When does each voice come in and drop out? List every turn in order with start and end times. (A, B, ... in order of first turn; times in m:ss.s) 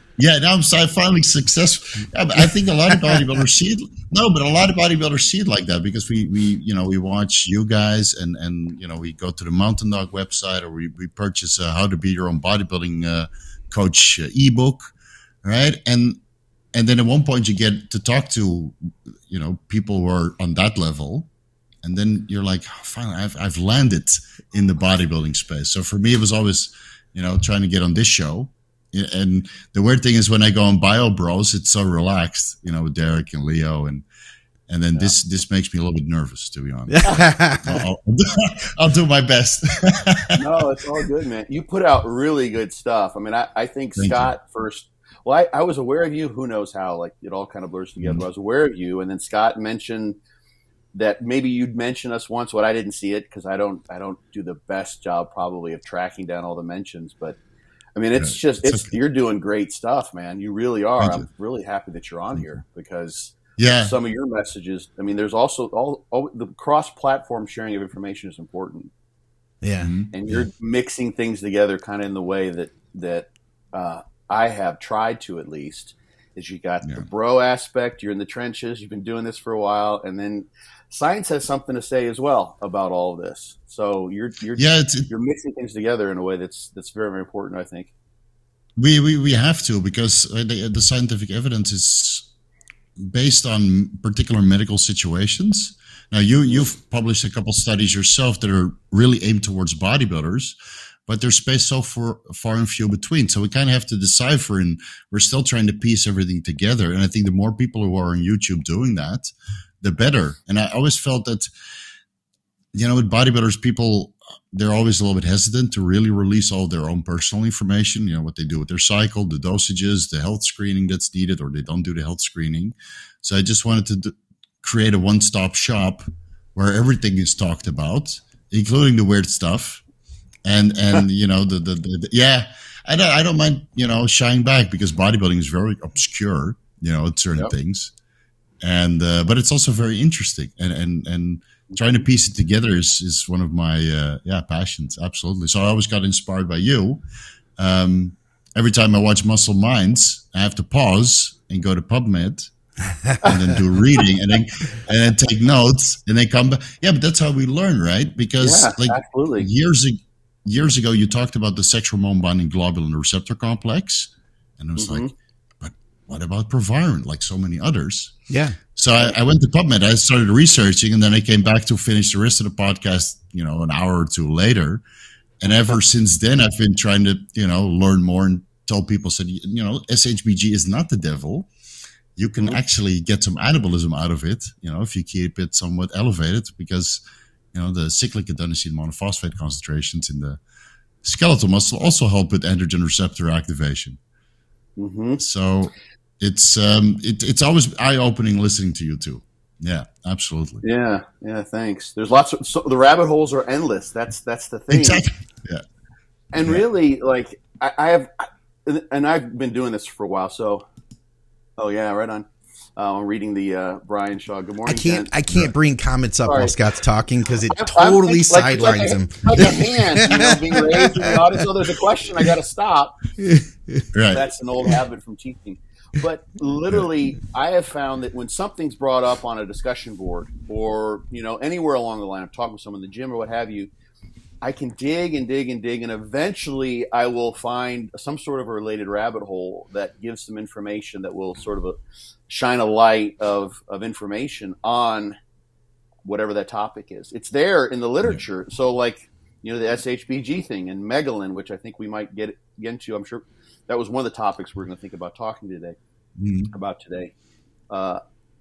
0:00.2-0:14.8 A
0:15.4-0:16.2 A
0:16.7-0:21.3 A
0:21.8-0:34.0 A
0:34.7-0:40.4 A
0:36.9-0:37.8 B
0:40.4-0:50.2 C
0:44.0-0:44.3 A
0:50.9-0:57.4 C
0:58.0-1:08.9 C
0:58.2-0:58.9 A
1:01.0-1:01.3 A
1:03.6-1:04.0 A
1:09.6-1:09.9 B
1:09.8-1:10.4 A
1:10.1-1:27.9 C
1:24.6-1:25.1 A
1:28.8-1:32.3 A
1:33.0-1:40.6 A
1:41.1-1:49.3 A
1:49.8-1:51.5 A
1:52.7-2:06.0 A
2:06.6-2:09.8 A
2:10.4-2:17.9 A
2:18.6-2:27.0 A
2:27.6-2:32.5 A
2:33.1-2:45.1 A
2:33.2-2:33.5 C
2:38.4-2:39.5 C
2:44.8-2:45.1 C
2:45.6-2:48.2 A
2:48.3-2:48.6 B
2:48.8-2:54.8 A
2:55.4-3:01.5 A
3:02.2-3:07.0 A
3:07.5-3:10.4 A
3:11.0-3:14.0 A
3:14.8-3:15.2 C
3:15.2-3:20.6 A
3:20.6-3:25.0 C
3:24.7-3:25.6 A
3:26.3-3:30.6 C
3:31.6-3:35.1 C
3:34.6-3:41.2 B
3:36.2-3:36.6 C
3:37.5-3:43.0 C
3:43.2-3:43.9 B
3:43.9-3:44.3 A
3:44.1-3:53.7 C
3:54.4-4:01.8 C
4:02.3-4:05.2 C
4:06.0-4:15.8 C
4:16.2-4:16.5 A
4:16.5-4:17.1 C
4:17.7-4:18.0 C